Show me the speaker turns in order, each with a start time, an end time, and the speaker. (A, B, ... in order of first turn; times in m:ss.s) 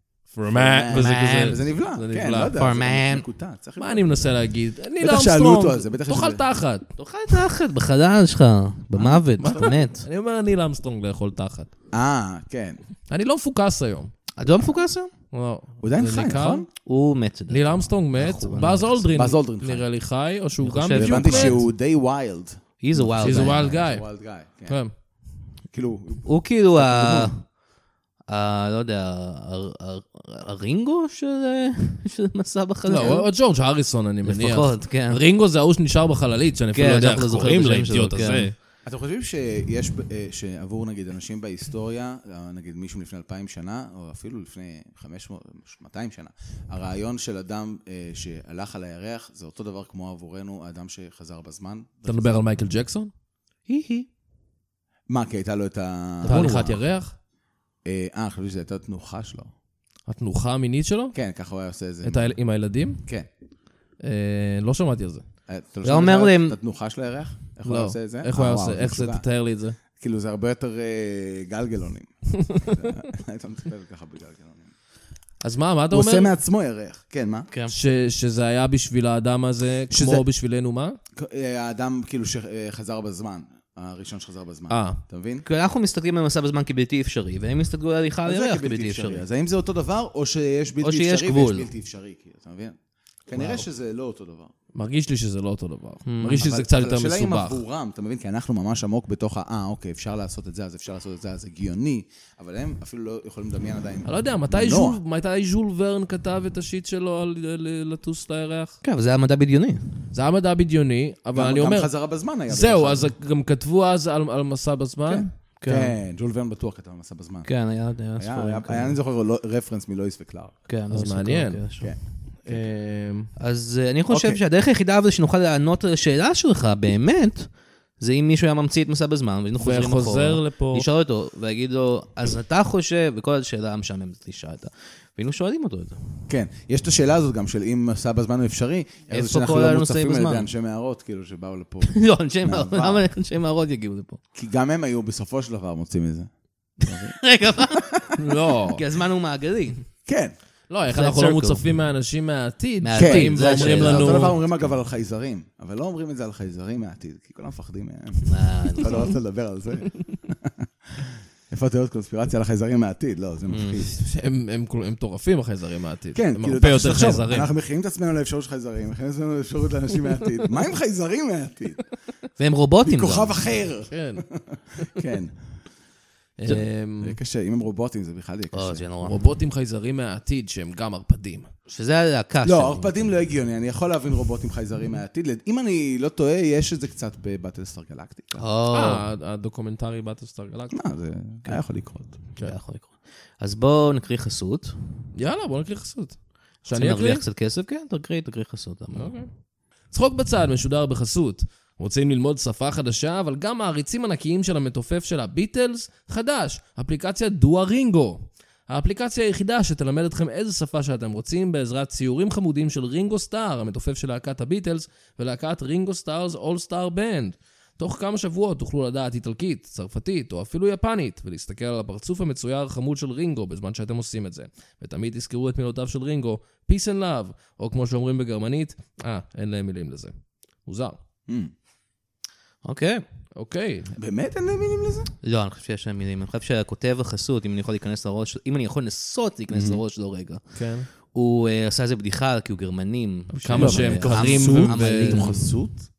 0:00.3-0:02.6 A
0:00.5-0:04.4 B
0:00.9-0:01.5 C
0:02.6-0:03.2 C
0:03.8-0:06.8 A
0:05.0-0:06.4 B
0:07.0-0:10.0 C
0:09.0-0:09.7 B
0:09.4-0:11.7 A
0:11.9-0:12.8 B
0:13.1-0:14.1 A
0:14.4-0:15.1 C
0:15.3-0:16.7 A
0:15.8-0:16.7 B
0:16.8-0:19.0 C
0:17.5-0:21.6 A
0:19.1-0:19.9 B
0:20.6-0:21.6 C
0:20.9-0:24.8 B
0:22.8-0:23.7 C
0:23.2-0:24.1 A
0:24.6-0:24.9 A
0:25.7-0:27.3 B
0:26.2-0:27.5 C
0:28.3-0:33.3 C
0:32.9-0:38.5 A
0:32.9-0:33.2 B
0:34.2-0:35.2 C
0:36.7-0:38.5 C
0:38.8-0:52.7 B
0:52.0-0:53.1 A
0:53.7-0:54.1 C
0:55.1-0:56.7 B
0:56.2-0:56.8 C
0:56.2-0:57.1 A
0:57.8-0:59.5 B
1:00.1-1:01.2 A
1:01.1-1:02.3 B
1:02.0-1:03.0 A
1:04.0-1:05.2 A
1:05.5-1:09.2 B
1:05.8-1:06.6 C
1:07.6-1:09.8 A
1:10.0-1:14.7 B
1:12.4-1:12.8 A
1:15.4-1:16.3 A
1:15.9-1:17.5 B
1:17.7-1:21.0 A
1:19.9-1:20.2 B
1:21.2-1:25.4 B
1:24.7-1:25.0 A
1:25.4-1:29.2 C
1:28.2-1:34.5 B
1:30.8-1:31.7 C
1:34.7-1:37.6 A
1:36.0-1:36.5 C
1:36.4-1:45.0 B
1:44.0-1:48.8 A
1:48.8-1:49.8 C
1:50.1-1:51.9 A
1:51.3-1:53.1 B
1:52.5-1:55.3 A
1:55.0-1:57.5 B
1:55.6-1:55.9 C
1:57.4-1:59.0 C
1:58.2-2:00.6 B
2:00.7-2:01.9 C
2:00.9-2:01.6 A
2:01.8-2:02.7 B
2:02.4-2:03.3 A
2:03.4-2:16.0 C
2:04.1-2:04.4 B
2:09.6-2:10.8 A
2:16.3-2:23.0 B
2:19.1-2:20.4 C
2:21.8-2:24.2 C
2:24.3-2:26.3 B
2:26.8-2:27.2 B
2:26.8-2:28.0 C
2:27.7-2:28.2 B
2:28.2-2:28.8 A
2:28.7-2:29.8 C
2:30.0-2:30.3 B
2:30.7-2:34.4 A
2:30.9-2:31.6 C
2:32.8-2:34.4 C
2:33.0-2:44.0 B
2:38.2-2:39.1 C
2:43.5-2:43.9 C
2:44.0-2:47.5 A
2:46.1-2:51.8 B
2:52.4-2:53.3 C
2:52.8-2:55.3 B
2:53.9-2:54.2 A
2:56.4-2:57.2 A
2:57.0-2:58.8 B
2:58.5-2:59.2 C
2:59.0-3:01.5 A
3:01.7-3:02.9 C
3:02.4-3:08.4 B
3:08.4-3:09.0 C
3:08.7-3:10.8 A
3:10.7-3:12.1 B
3:12.4-3:14.7 C
3:15.2-3:17.2 A
3:16.7-3:19.1 C
3:18.9-3:19.3 A
3:19.9-3:50.1 A
3:50.6-3:51.0 A
3:51.3-3:51.5 B
3:52.6-3:53.0 C
3:53.3-3:53.9 A
3:54.0-3:55.1 B
3:55.2-4:05.3 C
3:59.5-3:59.8 B
4:00.5-4:00.9 A
4:03.3-4:05.5 A
4:03.5-4:05.9 B